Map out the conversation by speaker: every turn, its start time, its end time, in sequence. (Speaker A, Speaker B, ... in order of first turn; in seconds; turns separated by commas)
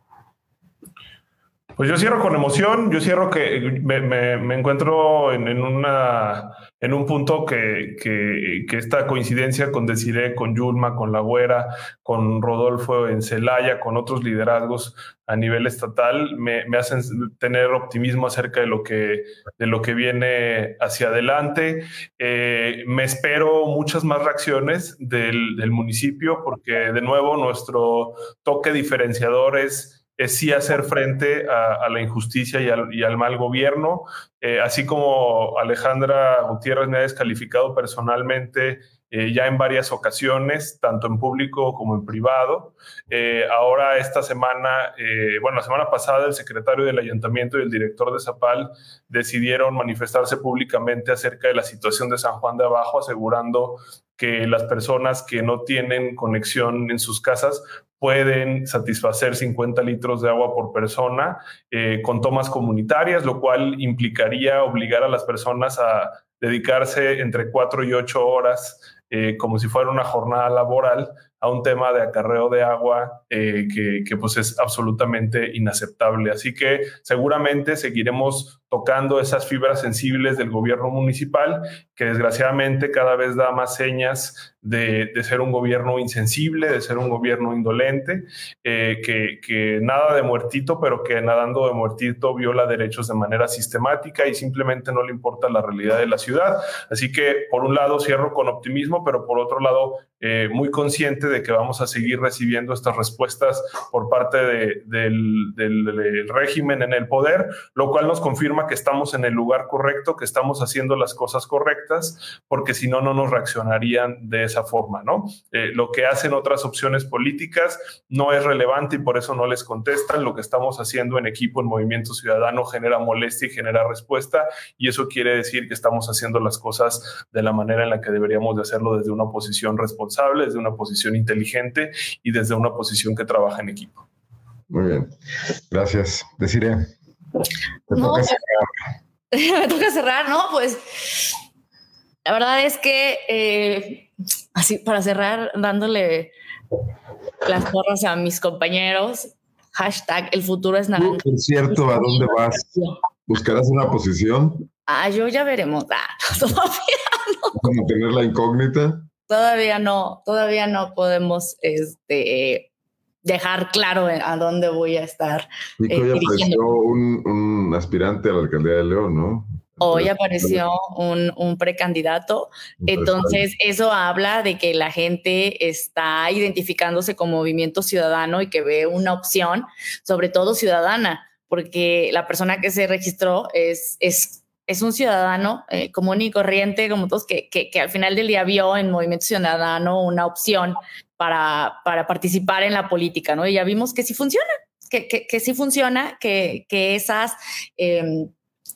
Speaker A: 1.8-134.0, Speaker B: 134.7-135.1, Speaker B: 135.7-136.9, Speaker B: 137.9-138.7, Speaker C: 137.9-138.3, Speaker C: 139.3-141.3, Speaker C: 142.2-146.3, Speaker C: 147.4-152.9, Speaker B: 151.0-152.7, Speaker B: 153.3-154.7, Speaker C: 154.9-157.6, Speaker B: 157.5-159.1, Speaker C: 159.3-162.7, Speaker C: 163.2-166.6, Speaker B: 165.8-170.6, Speaker C: 169.8-198.3, Speaker B: 172.8-173.4